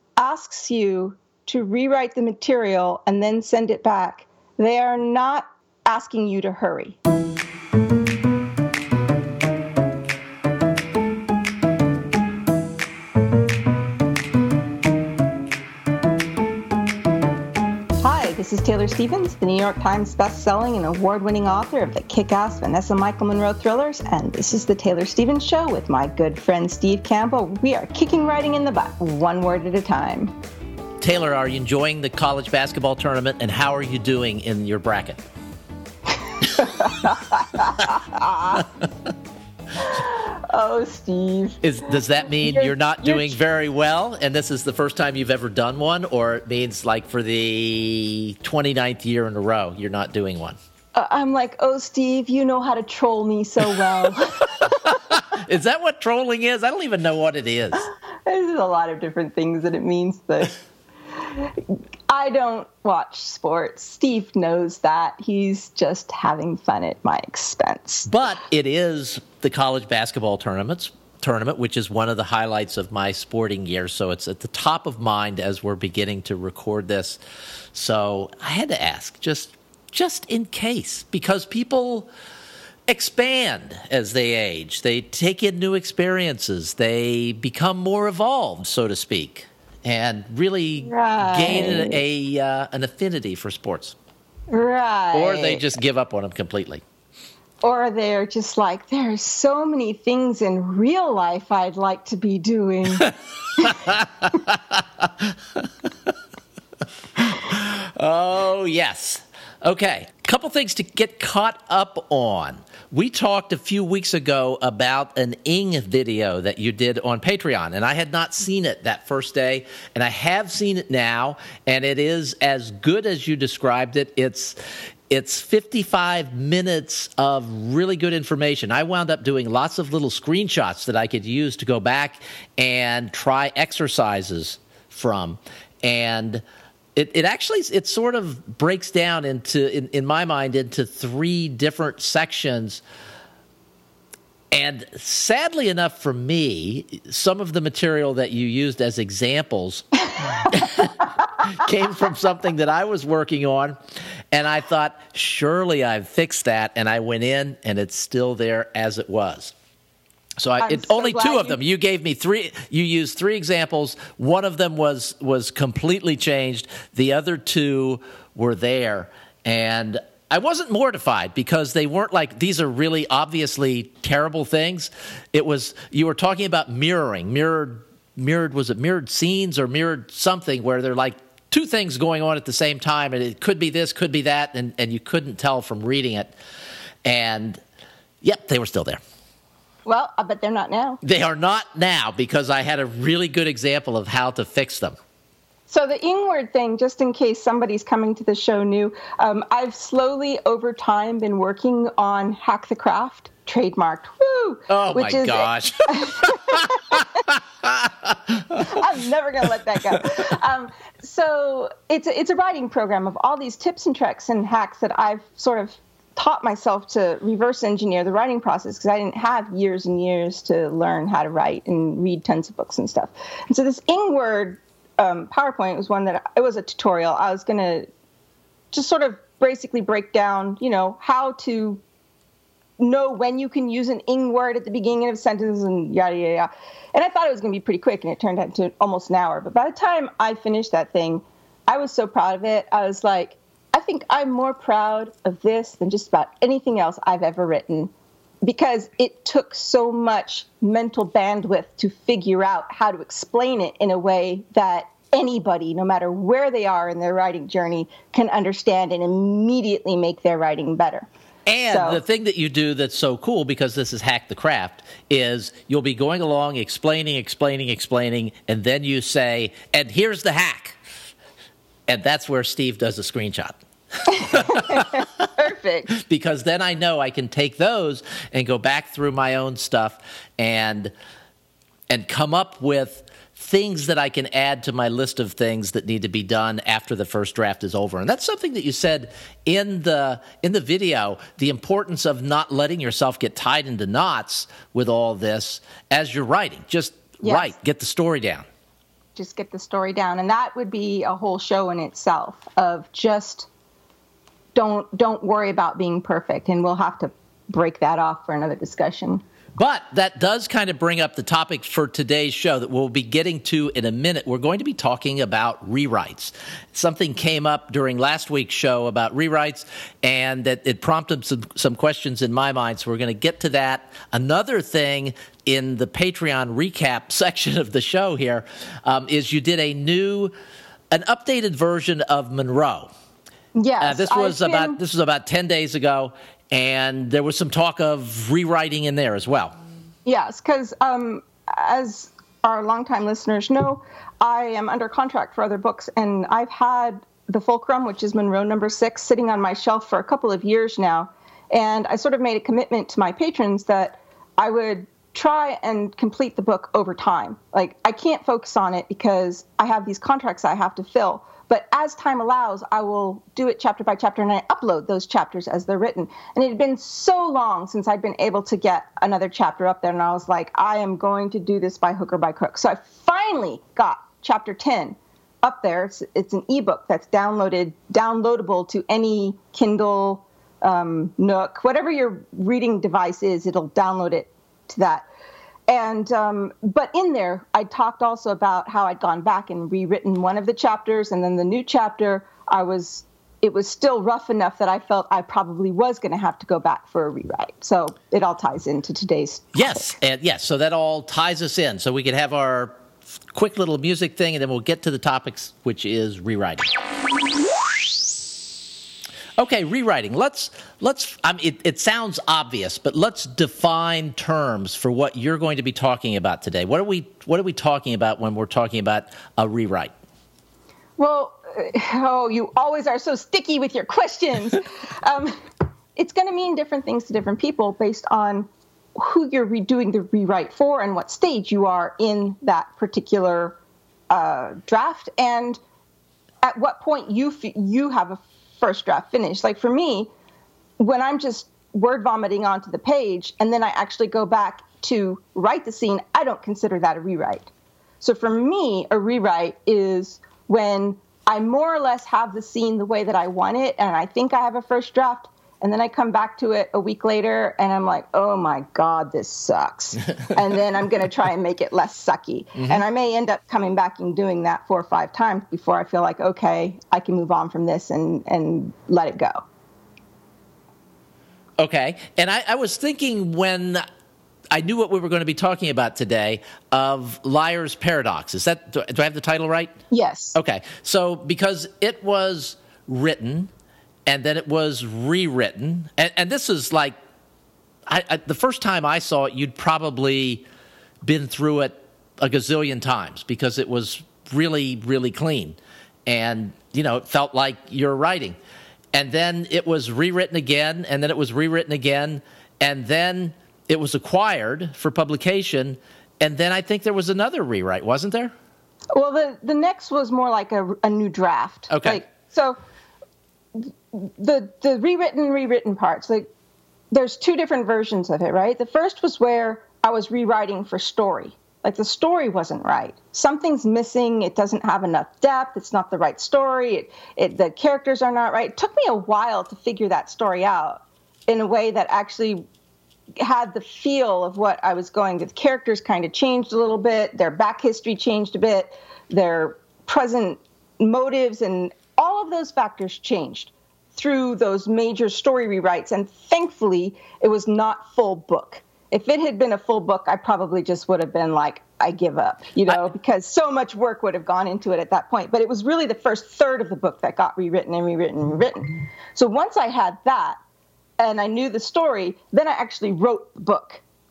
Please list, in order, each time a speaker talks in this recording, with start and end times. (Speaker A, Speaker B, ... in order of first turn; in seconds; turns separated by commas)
Speaker A: 0.2-7.0, Speaker A: 18.0-30.3, Speaker B: 31.0-35.2, Speaker A: 36.2-38.6, Speaker A: 39.8-41.6, Speaker B: 41.6-50.6, Speaker A: 42.4-43.4, Speaker A: 50.9-55.2, Speaker B: 53.8-57.9, Speaker A: 57.8-60.5, Speaker A: 61.2-68.1, Speaker B: 68.1-77.2, Speaker B: 77.7-82.1, Speaker B: 82.9-93.9, Speaker A: 90.8-92.0, Speaker A: 94.5-95.7, Speaker B: 95.1-96.8, Speaker A: 97.6-103.9, Speaker B: 102.9-106.1, Speaker B: 107.2-124.5, Speaker B: 125.1-136.4, Speaker B: 136.9-142.8, Speaker B: 144.5-153.8, Speaker B: 154.3-159.5, Speaker B: 160.4-186.3, Speaker A: 160.6-161.6, Speaker B: 187.0-187.6, Speaker B: 188.2-189.0, Speaker A: 189.8-191.0, Speaker B: 191.0-194.9, Speaker A: 195.7-207.2, Speaker B: 204.7-208.8, Speaker A: 208.6-227.9, Speaker A: 228.7-231.8, Speaker A: 232.8-247.9, Speaker A: 248.4-261.1, Speaker B: 261.4-270.8, Speaker A: 261.7-262.0, Speaker B: 271.9-275.0, Speaker A: 274.1-275.9, Speaker B: 275.9-280.9, Speaker B: 281.9-298.4, Speaker A: 297.2-297.5, Speaker A: 299.1-303.5, Speaker A: 304.5-309.2, Speaker B: 309.6-330.3, Speaker B: 330.9-332.9, Speaker A: 333.5-334.8, Speaker B: 333.8-339.5, Speaker A: 340.1-385.1, Speaker A: 385.7-399.9, Speaker B: 399.5-402.8, Speaker B: 403.3-406.7, Speaker B: 409.4-419.9, Speaker A: 421.0-425.4, Speaker A: 425.9-433.6, Speaker A: 434.1-435.6, Speaker A: 436.4-440.1, Speaker A: 440.8-469.4, Speaker B: 471.6-473.8, Speaker B: 474.5-479.7, Speaker A: 479.9-480.4, Speaker B: 480.3-483.5, Speaker B: 484.1-486.9, Speaker B: 487.9-490.4, Speaker B: 491.0-498.4, Speaker B: 498.9-508.3, Speaker A: 508.9-512.6, Speaker B: 511.7-512.0, Speaker A: 513.5-516.3, Speaker A: 516.9-532.4, Speaker A: 533.2-560.4, Speaker A: 561.0-563.8